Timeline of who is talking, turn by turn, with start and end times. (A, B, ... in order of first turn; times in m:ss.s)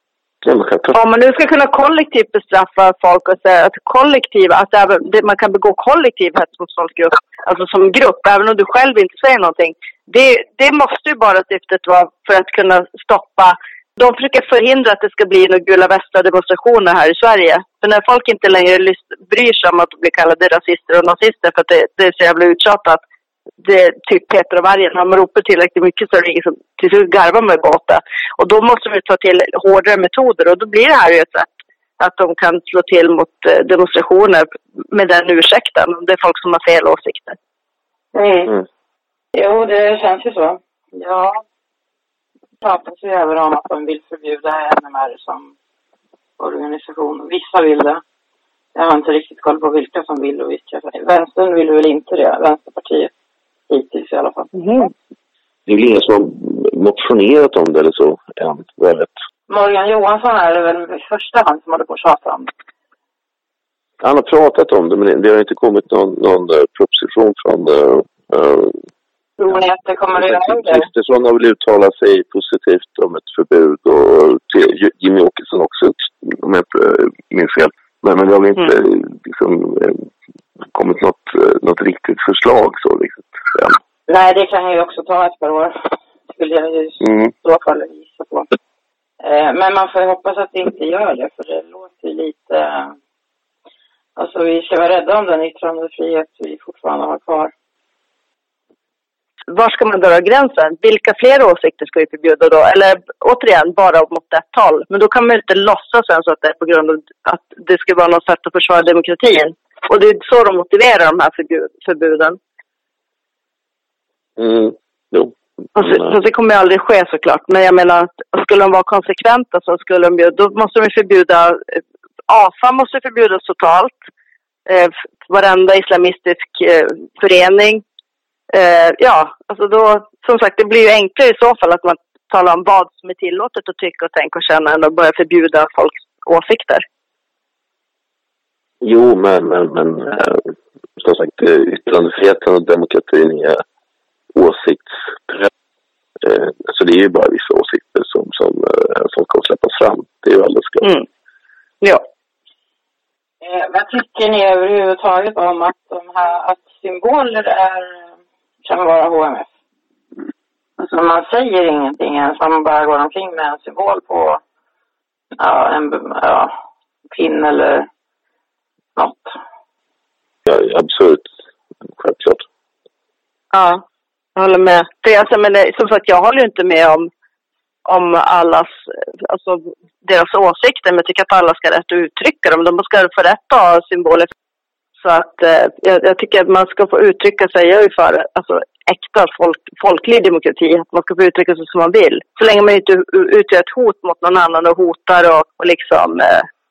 0:00.4-0:01.0 A
0:00.9-0:23.0 B
0:23.6-0:31.5 B
0:32.0-0:37.4 B
0:38.1-0:38.6 C
0:39.3-0:41.4 C
0:42.6-0:45.5 C
0:46.4-0:48.0 C
0:48.7-0:53.1 C
0:53.7-0:54.5 C
0:54.5-0:54.9 B
0:55.6-0:59.1 A
0:59.5-1:02.5 C
1:04.0-1:08.8 A
1:09.4-1:10.9 C
1:10.1-1:20.1 A
1:20.7-1:23.8 A
1:24.1-1:28.5 C
1:29.2-1:32.9 C
1:34.2-1:37.5 C
1:39.5-1:52.4 B
1:54.4-1:56.1 A
1:55.7-2:04.0 B
2:04.7-2:07.8 B
2:08.5-2:16.8 B
2:18.8-2:20.4 A
2:21.0-2:23.6 A
2:24.3-2:25.5 A
2:26.2-2:30.9 A
2:33.4-2:38.1 C
2:38.6-2:39.5 C
2:40.8-2:44.4 C
2:45.4-2:46.5 C
2:47.1-2:47.9 C
2:49.0-2:49.4 C
2:50.4-2:51.3 A
2:51.8-2:52.4 A
2:53.5-2:53.8 B
2:54.4-2:57.1 B
2:57.8-3:04.3 B
3:05.0-3:16.5 B